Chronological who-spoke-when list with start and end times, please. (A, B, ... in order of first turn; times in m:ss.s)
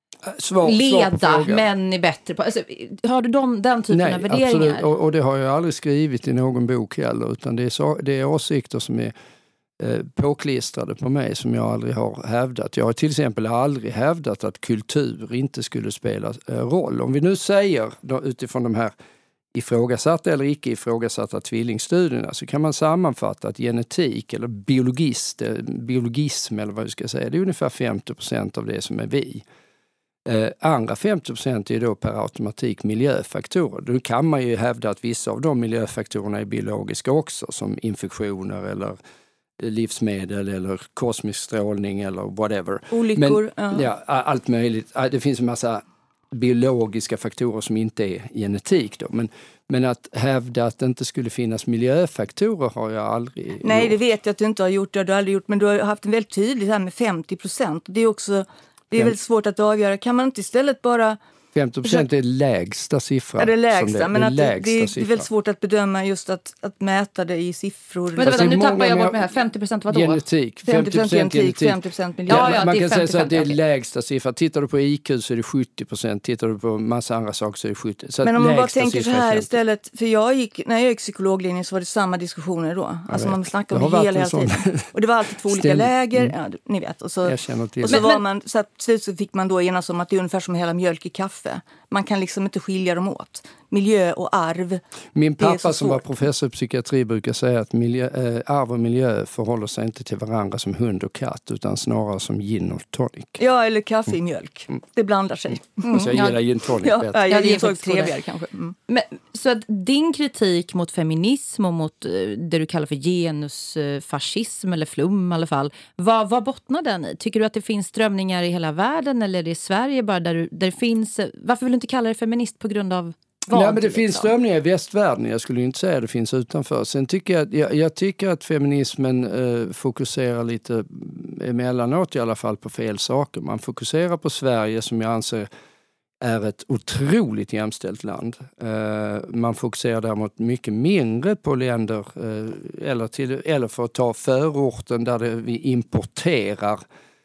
0:00.3-0:01.6 A
0:00.6-0:04.8 B
0:03.9-0:09.1 A
0:09.8-0:18.9 A
0:19.5-0:29.4 A
0:30.3-0:39.0 A
0:39.6-0:54.0 A
0:42.9-0:43.9 C
0:53.6-1:01.2 C
1:01.6-1:05.3 A
1:03.4-1:08.6 C
1:08.2-1:10.2 B
1:08.2-1:09.2 A
1:09.9-1:19.5 A
1:10.7-1:12.6 C
1:12.3-1:13.6 B
1:18.2-1:34.8 C
1:23.1-1:24.9 A
1:25.5-1:26.3 A
1:27.2-1:28.0 A
1:27.9-1:28.2 B
1:35.2-1:43.4 A
1:35.4-1:36.0 C
1:43.4-1:46.3 C
1:45.9-1:46.4 B
1:45.9-1:47.2 A
1:46.8-1:48.8 C
1:47.2-1:48.1 B
1:48.9-2:04.3 B
2:03.5-2:15.5 A
2:16.2-2:26.8 A